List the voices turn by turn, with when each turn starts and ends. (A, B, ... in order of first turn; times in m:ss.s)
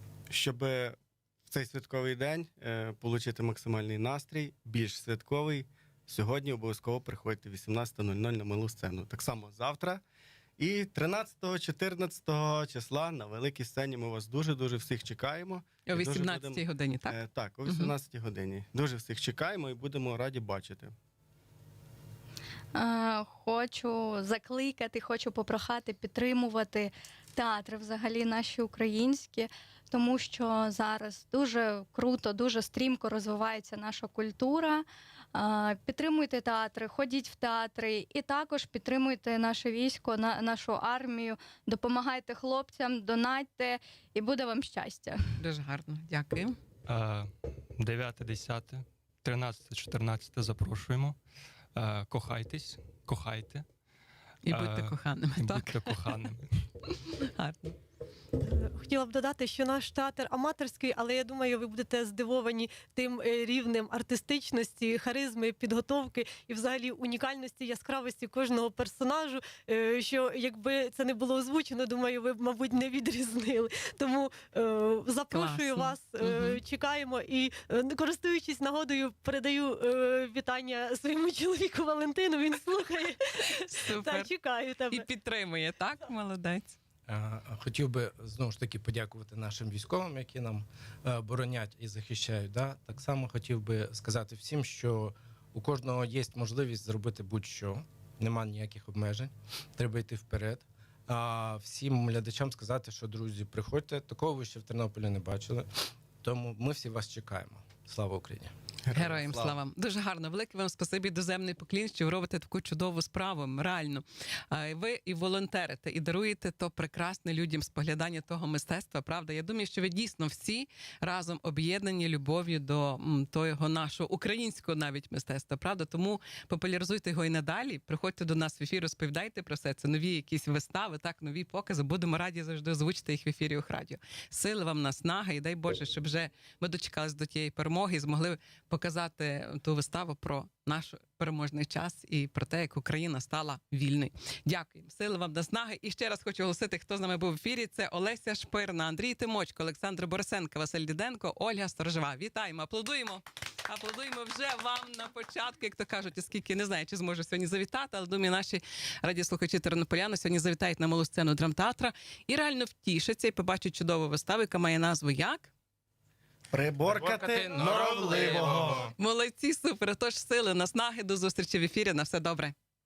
0:00.3-0:00.9 A
0:01.5-0:10.0 A
0:10.6-0:20.9 A
0:15.9-0:17.9 B
0:22.8-0:45.4 C
0:45.4-0:46.6 B
0:46.9-0:51.2 D
0:51.8-0:53.7 D
0:54.4-0:56.0 B
0:54.5-0:56.5 D
0:57.1-0:57.8 B
0:58.4-1:25.1 E
1:15.3-1:16.6 B
1:23.4-1:24.3 B
1:24.9-1:26.8 B
1:27.1-1:49.5 F
1:48.9-1:49.3 C
1:48.9-2:45.5 B
2:46.5-2:48.9 C
2:46.8-2:48.9 F
2:46.9-2:48.0 A
2:47.6-2:48.6 D
2:49.0-2:52.5 B